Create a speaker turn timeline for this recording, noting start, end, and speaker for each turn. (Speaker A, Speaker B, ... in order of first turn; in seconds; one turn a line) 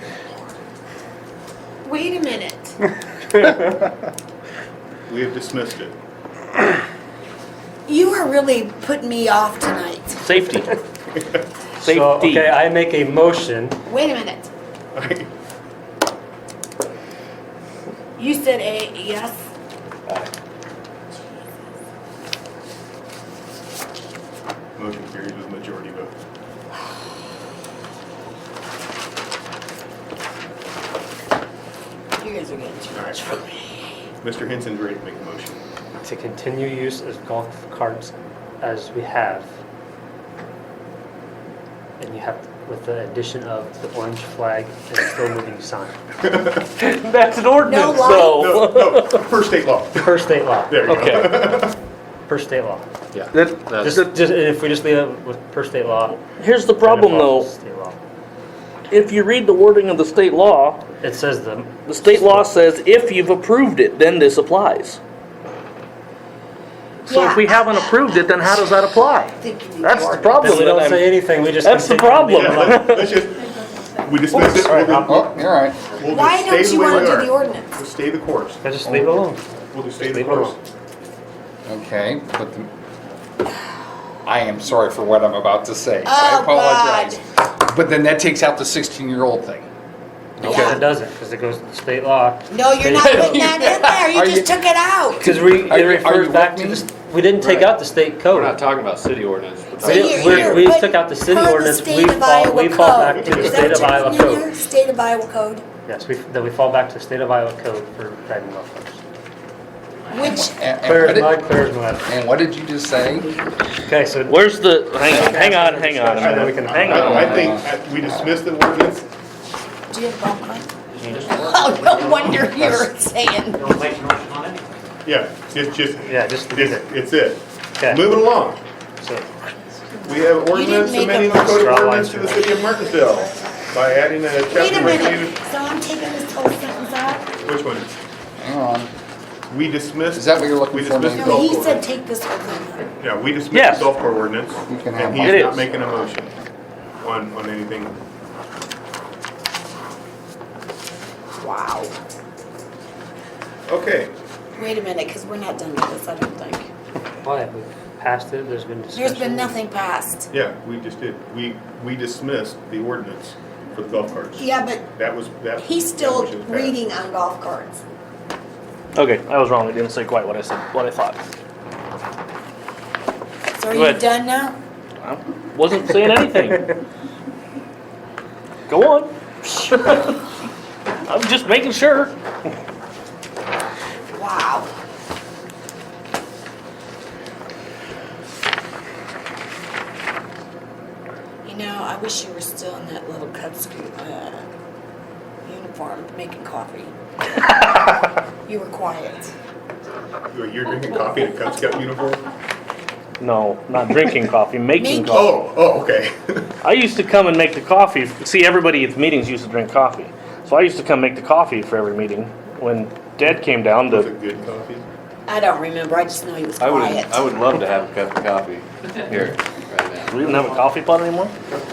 Speaker A: 1.8-2.8
Speaker B: 5.1-5.9
Speaker A: 7.8-10.2
Speaker C: 10.2-10.7
Speaker C: 11.8-12.5
Speaker D: 11.8-13.8
Speaker A: 13.8-14.5
Speaker B: 14.9-15.3
Speaker A: 18.2-19.4
Speaker B: 24.8-26.1
Speaker A: 32.2-33.8
Speaker B: 32.9-33.2
Speaker B: 34.2-35.6
Speaker D: 36.0-39.5
Speaker D: 42.0-46.0
Speaker B: 46.2-46.6
Speaker C: 46.8-49.2
Speaker A: 47.6-48.6
Speaker B: 47.9-51.7
Speaker D: 50.0-51.7
Speaker C: 50.9-51.3
Speaker D: 52.3-52.9
Speaker E: 53.1-54.0
Speaker C: 53.3-54.1
Speaker D: 53.8-56.2
Speaker C: 56.4-57.5
Speaker D: 56.8-58.0
Speaker C: 58.9-60.8
Speaker D: 61.0-62.2
Speaker C: 61.9-65.0
Speaker C: 67.0-73.2
Speaker A: 67.1-68.6
Speaker A: 69.3-70.7
Speaker D: 70.4-72.8
Speaker B: 72.3-79.1
Speaker C: 74.3-75.1
Speaker F: 75.0-75.8
Speaker A: 76.0-77.8
Speaker D: 78.6-79.4
Speaker B: 79.7-80.6
Speaker D: 80.0-80.5
Speaker F: 81.7-82.7
Speaker F: 84.2-89.7
Speaker A: 86.0-87.2
Speaker D: 90.4-93.8
Speaker F: 90.4-90.8
Speaker A: 90.4-90.8
Speaker A: 92.5-95.3
Speaker F: 93.9-94.5
Speaker D: 95.2-98.6
Speaker F: 95.2-96.9
Speaker E: 97.4-97.7
Speaker E: 98.3-100.7
Speaker A: 99.8-105.6
Speaker D: 99.8-104.5
Speaker B: 103.2-104.1
Speaker D: 105.8-109.0
Speaker A: 110.1-110.6
Speaker F: 110.2-111.4
Speaker D: 110.8-112.1
Speaker F: 112.0-113.3
Speaker D: 113.8-117.5
Speaker C: 114.3-117.2
Speaker B: 116.1-119.1
Speaker F: 116.8-117.7
Speaker A: 119.9-123.7
Speaker F: 122.6-122.8
Speaker B: 125.0-128.6
Speaker D: 126.0-126.9
Speaker D: 127.8-128.1
Speaker D: 129.0-129.3
Speaker B: 130.0-135.4
Speaker A: 130.5-132.6
Speaker D: 131.5-132.5
Speaker A: 134.5-137.4
Speaker B: 137.4-137.9
Speaker F: 138.4-138.9
Speaker B: 139.5-141.8
Speaker F: 140.1-141.5
Speaker A: 141.1-142.9
Speaker B: 142.9-146.3
Speaker C: 143.5-143.9
Speaker F: 144.7-145.5
Speaker C: 145.2-145.7
Speaker B: 147.0-148.0
Speaker A: 151.4-151.9
Speaker B: 153.7-154.1
Speaker A: 154.6-156.7
Speaker D: 157.2-159.6
Speaker A: 158.9-160.3
Speaker B: 160.3-166.8
Speaker A: 164.4-164.9
Speaker A: 165.6-167.8
Speaker C: 168.9-171.2
Speaker A: 173.6-174.6
Speaker C: 173.7-174.0
Speaker C: 175.0-176.7
Speaker C: 178.7-179.1
Speaker A: 179.4-180.2
Speaker C: 179.7-180.1
Speaker C: 181.1-182.2
Speaker A: 184.1-184.7
Speaker A: 191.4-194.4
Speaker A: 195.4-196.9
Speaker A: 197.5-199.3
Speaker B: 200.3-202.2
Speaker C: 203.2-205.3
Speaker A: 204.8-205.3
Speaker B: 205.1-206.5
Speaker C: 206.6-214.1
Speaker B: 213.8-214.8
Speaker A: 215.3-217.3
Speaker E: 216.6-220.4
Speaker C: 220.0-221.3